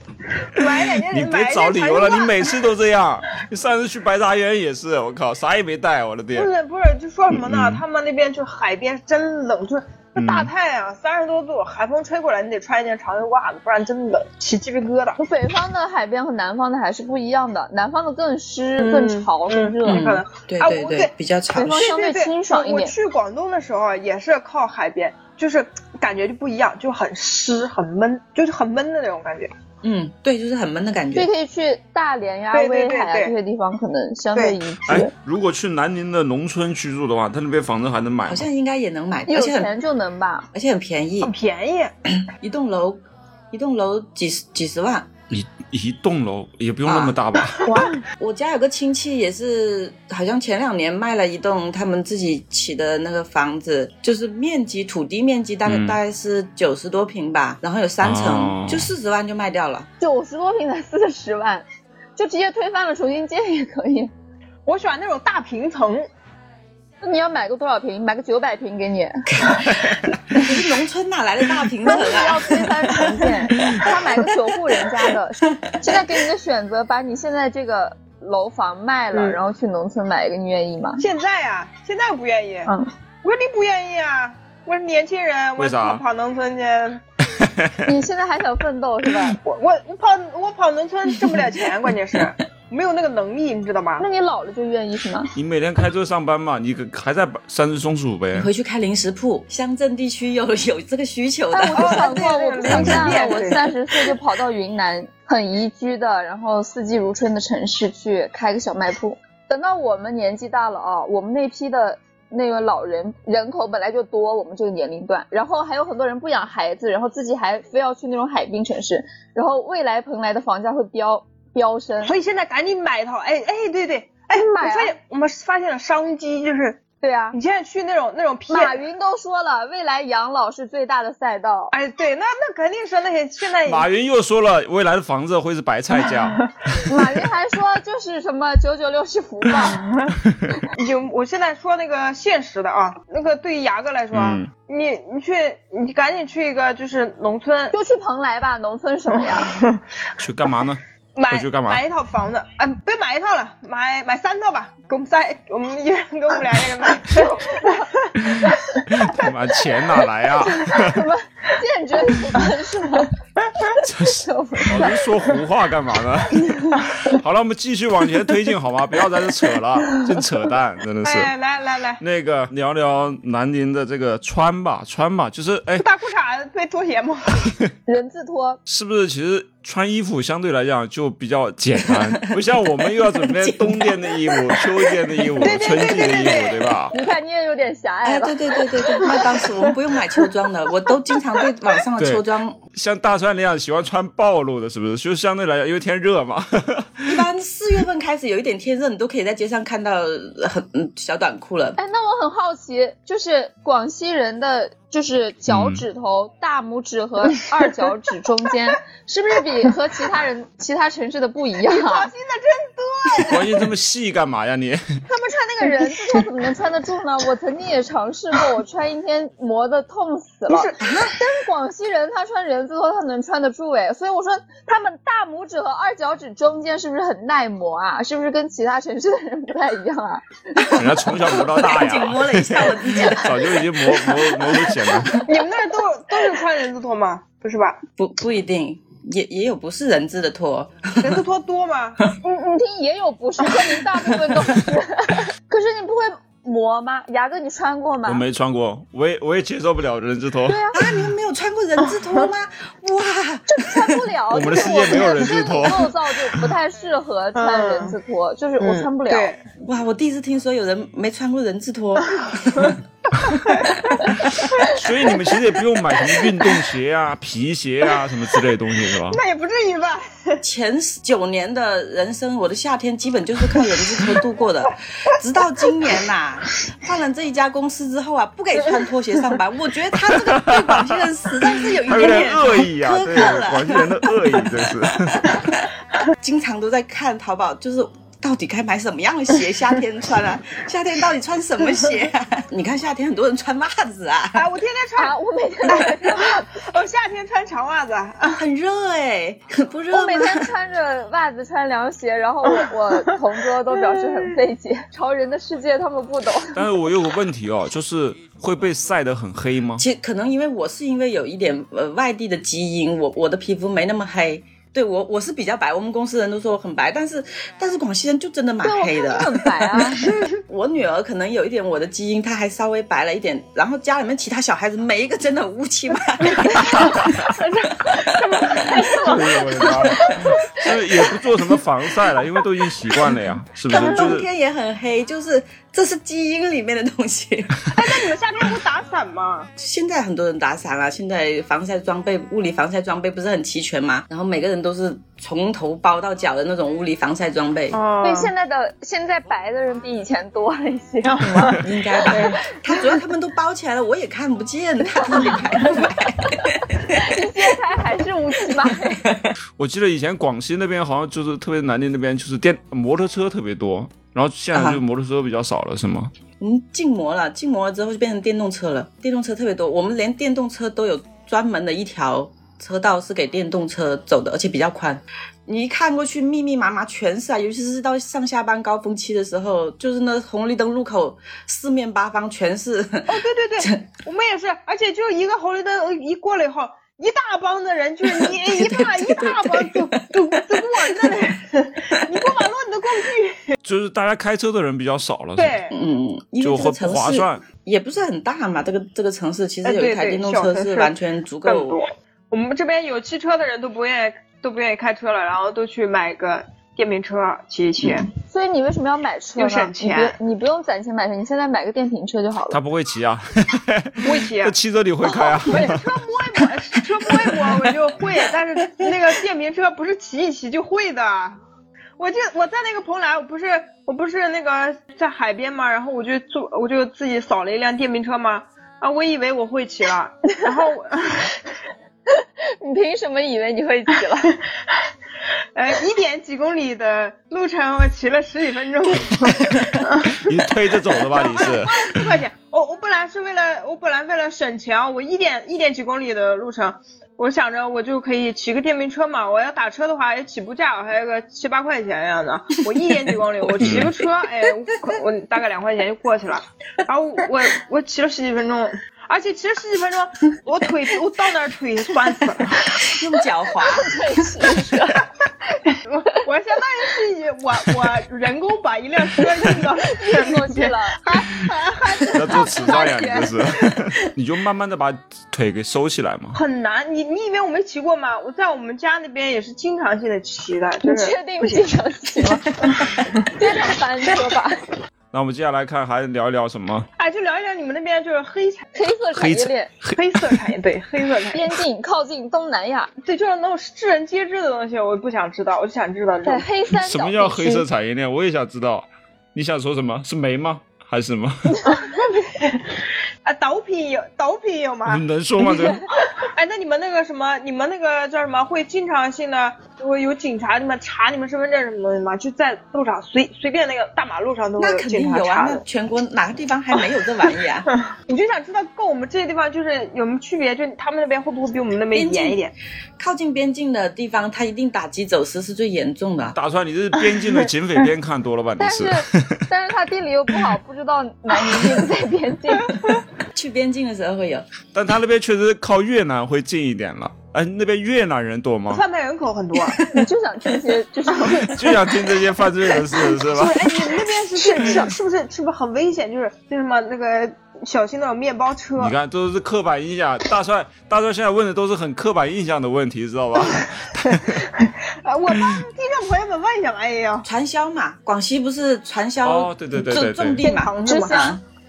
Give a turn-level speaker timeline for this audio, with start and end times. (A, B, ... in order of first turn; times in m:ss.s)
0:00.5-0:02.6 A
0:00.6-0:06.5 B
0:06.3-0:15.2 A
0:07.3-0:07.8 B
0:10.2-0:10.5 B
0:15.2-0:20.1 C
0:18.8-0:21.1 A
0:19.8-0:21.9 D
0:21.5-0:22.9 C
0:21.6-0:29.5 A
0:29.8-0:31.3 D
0:31.1-0:35.1 C
0:32.5-0:33.3 A
0:34.3-0:34.6 A
0:34.9-0:38.5 B
0:38.3-0:39.7 D
0:39.3-0:40.5 C
0:40.5-0:41.3 D
0:41.2-0:41.9 A
0:42.2-0:45.1 D
0:45.3-0:47.6 B
0:46.8-0:59.9 D
0:47.6-0:48.0 C
0:55.6-0:56.0 B
0:58.0-0:58.9 B
1:00.0-1:01.6 C
1:02.2-1:04.1 C
1:04.6-1:06.0 A
1:07.0-1:09.2 C
1:09.3-1:14.3 D
1:11.8-1:21.0 C
1:19.1-1:19.4 A
1:21.0-1:22.7 A
1:23.2-1:27.0 A
1:25.6-1:26.0 B
1:27.4-1:27.7 B
1:27.8-1:29.4 C
1:29.3-1:34.0 A
1:34.0-1:35.3 C
1:35.3-1:38.5 B
1:38.3-1:43.3 D
1:41.5-2:02.1 C
1:41.7-1:43.7 A
1:42.7-1:43.1 B
2:02.0-2:06.8 A
2:04.3-2:04.9 C
2:07.0-2:07.4 C
2:07.3-2:08.8 A
2:08.5-2:11.7 C
2:11.7-2:13.9 A
2:13.6-2:16.5 B
2:16.8-2:19.8 C
2:19.7-2:20.1 A
2:20.7-2:27.7 A
2:24.1-2:24.5 B
2:27.7-2:29.5 C
2:29.2-2:29.8 A
2:30.2-2:31.8 B
2:31.2-2:39.3 A
2:37.2-2:37.8 C
2:38.5-2:41.0 B
2:40.6-2:43.1 C
2:43.8-2:51.3 B
2:44.0-2:45.0 C
2:51.0-2:52.0 A
2:52.0-2:55.8 B
2:55.8-2:57.5 A
2:57.9-2:58.6 C
2:58.7-3:06.9 B
3:01.8-3:02.2 D
3:02.9-3:05.5 D
3:05.4-3:06.7 A
3:06.9-3:08.4 C
3:08.0-3:12.6 D
3:09.0-3:09.4 A
3:12.0-3:12.2 B
3:12.7-3:17.2 B
3:17.1-3:21.8 D
3:21.8-3:32.1 C
3:25.5-3:25.8 B
3:31.6-3:33.6 A
3:33.2-3:34.8 B
3:35.1-3:36.2 A
3:35.6-3:50.8 C
3:40.5-3:41.0 A
3:40.8-3:41.2 D
3:50.7-3:55.2 B
3:50.8-3:55.2 D
3:55.2-3:57.8 A
3:58.0-4:01.2 D
4:01.0-4:02.0 A
4:02.2-4:08.2 C
4:08.0-4:10.6 B
4:10.5-4:10.8 C
4:10.7-4:14.0 D
4:13.5-4:19.3 C
4:14.3-4:15.9 B
4:17.3-4:18.0 A
4:18.6-4:19.4 A
4:19.6-4:22.8 D
4:23.3-4:25.1 A
4:24.3-4:29.2 B
4:26.1-4:26.5 A
4:29.1-4:30.4 A
4:30.4-4:44.1 D
4:40.1-4:45.4 B
4:45.2-4:45.7 D
4:46.2-4:54.5 D
4:54.3-4:58.4 A
4:55.0-4:56.4 C
4:55.6-4:56.0 D
4:58.3-5:00.5 D
4:59.9-5:06.6 C
5:02.5-5:03.0 A
5:03.7-5:04.4 A
5:06.5-5:09.8 B
5:09.8-5:19.7 D
5:18.6-5:20.1 C
5:20.0-5:20.4 A
5:20.3-5:27.2 D
5:26.2-5:31.1 A
5:28.7-5:28.9 C
5:29.0-5:34.3 B
5:33.7-5:37.9 D
5:37.7-5:39.5 A
5:39.6-5:47.8 D
5:47.7-5:48.3 A
5:48.0-5:51.6 C
5:51.0-5:52.4 A
5:51.2-5:57.1 D
5:55.1-5:55.4 C
5:56.4-5:59.0 C
5:58.7-5:59.3 D
5:59.6-6:06.1 B
6:04.5-6:04.8 D
6:06.4-6:23.8 D
6:23.1-6:33.6 A
6:28.0-6:32.0 D
6:33.6-6:35.6 B
6:35.4-6:35.7 A
6:35.7-6:41.8 D
6:36.4-6:37.4 B
6:39.6-6:40.9 A
6:41.4-6:48.1 A
6:47.8-6:48.1 D
6:48.3-6:52.6 C
6:49.4-6:50.2 A
6:52.5-6:55.8 B
6:54.0-6:54.5 A
6:55.1-6:55.6 C
6:55.4-7:01.4 A
6:57.2-6:57.6 B
7:02.0-7:11.3 A
7:12.1-7:14.3 C
7:15.5-7:20.3 A
7:20.1-7:22.1 B
7:21.1-7:42.9 A
7:33.6-7:33.9 D
7:33.6-7:33.9 B
7:42.8-7:44.0 D
7:43.6-7:45.0 C
7:45.4-7:53.8 A
7:49.8-7:51.0 C
7:52.1-7:56.4 B
7:56.3-8:03.3 A
8:00.8-8:04.6 C
8:05.1-8:06.9 B
8:07.0-8:08.6 A
8:08.7-8:09.7 C
8:09.1-8:10.4 B
8:10.0-8:11.5 A
8:11.3-8:12.9 C
8:13.0-8:16.5 A
8:16.2-8:17.6 C
8:16.7-8:21.6 B
8:21.5-8:21.8 C
8:21.7-8:25.0 A
8:24.8-8:25.8 B
8:26.1-8:35.6 A
8:34.6-8:37.7 D
8:37.9-8:42.5 A
8:41.9-8:42.4 D
8:43.0-8:46.4 D
8:46.3-8:49.4 B
8:48.6-8:52.7 C
8:53.3-8:54.5 D
8:54.7-8:58.8 B
8:58.7-8:59.8 A
8:59.8-9:00.0 D
8:59.9-9:01.6 C
9:01.3-9:01.7 A
9:01.5-9:03.9 B
9:03.2-9:08.9 A
9:04.4-9:04.9 C
9:08.8-9:14.5 B
9:13.6-9:17.2 A
9:17.2-9:21.4 D
9:19.2-9:20.4 B
9:20.4-9:21.3 A
9:20.8-9:21.4 C